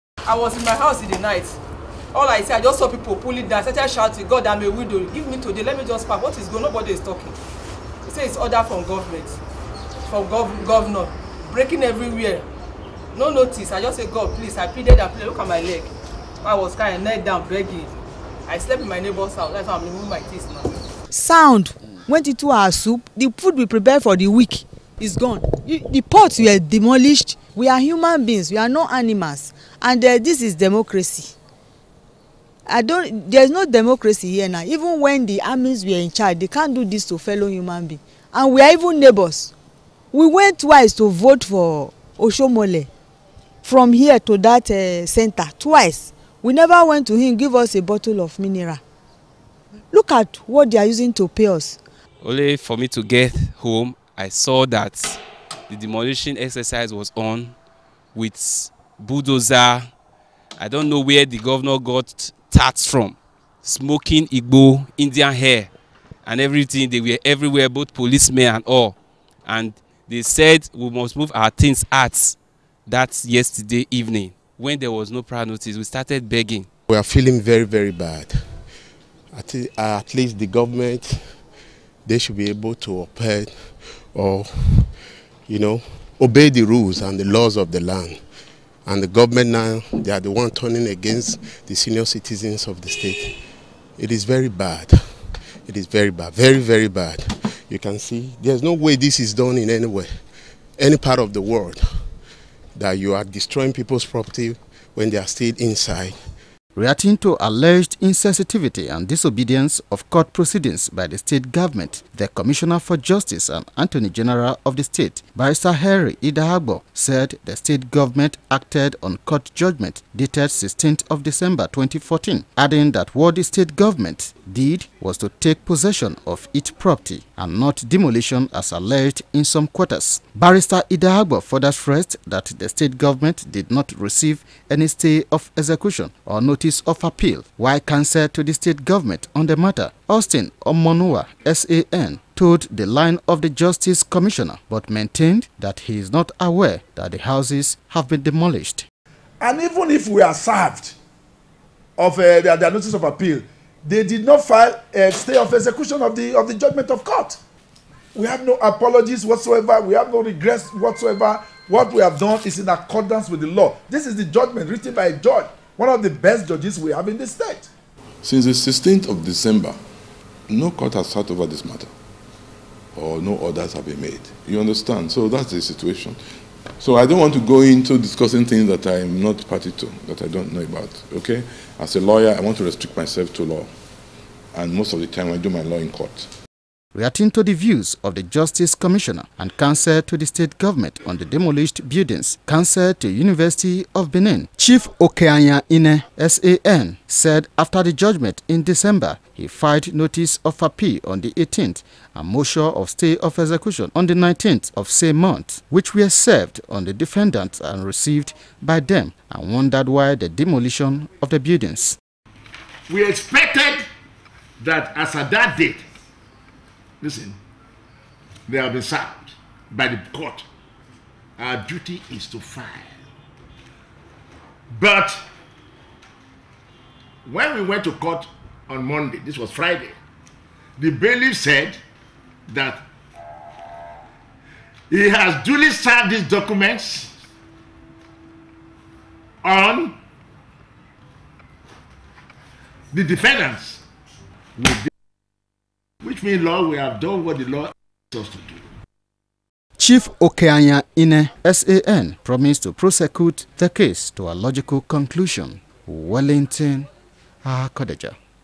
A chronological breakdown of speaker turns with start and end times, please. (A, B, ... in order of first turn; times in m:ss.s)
0:00.2-0:01.5 A
0:02.1-0:07.3 A
0:08.0-0:09.4 A
0:10.1-0:12.4 A
0:13.1-0:17.9 A
0:18.5-0:20.7 A
0:21.1-0:31.3 B
0:32.6-0:39.5 B
0:40.1-0:42.9 B
0:43.6-0:48.8 B
0:49.9-0:51.8 B
0:52.2-0:57.5 C
0:58.1-0:59.9 C
1:00.6-1:05.7 C
1:06.2-1:16.7 C
1:16.9-1:18.6 D
1:19.3-1:21.4 D
1:22.0-1:28.2 D
1:28.8-1:33.4 D
1:34.0-1:40.2 D
1:40.8-1:41.8 D
1:42.8-1:46.2 D
1:46.7-2:28.8 E
2:29.4-2:31.0 F
2:32.0-2:37.4 F
2:38.1-2:47.7 F
2:48.2-2:49.8 G
2:50.5-2:51.9 G
2:52.9-2:56.2 G
2:56.8-3:03.7 G
3:04.5-3:06.3 G
3:06.9-3:32.0 E
3:32.9-3:33.8 H
3:34.6-3:35.8 H
3:37.0-3:37.4 H
3:38.5-3:40.4 H
3:41.4-3:43.0 H
3:44.7-3:45.2 H
3:47.2-3:50.0 H
3:50.8-3:51.8 H
3:52.5-3:52.8 H
3:54.9-3:57.1 H
3:59.4-3:59.9 H
4:02.9-4:03.8 H
4:04.6-4:04.9 H
4:06.0-4:08.6 H
4:09.8-4:16.9 E
4:17.4-4:18.2 E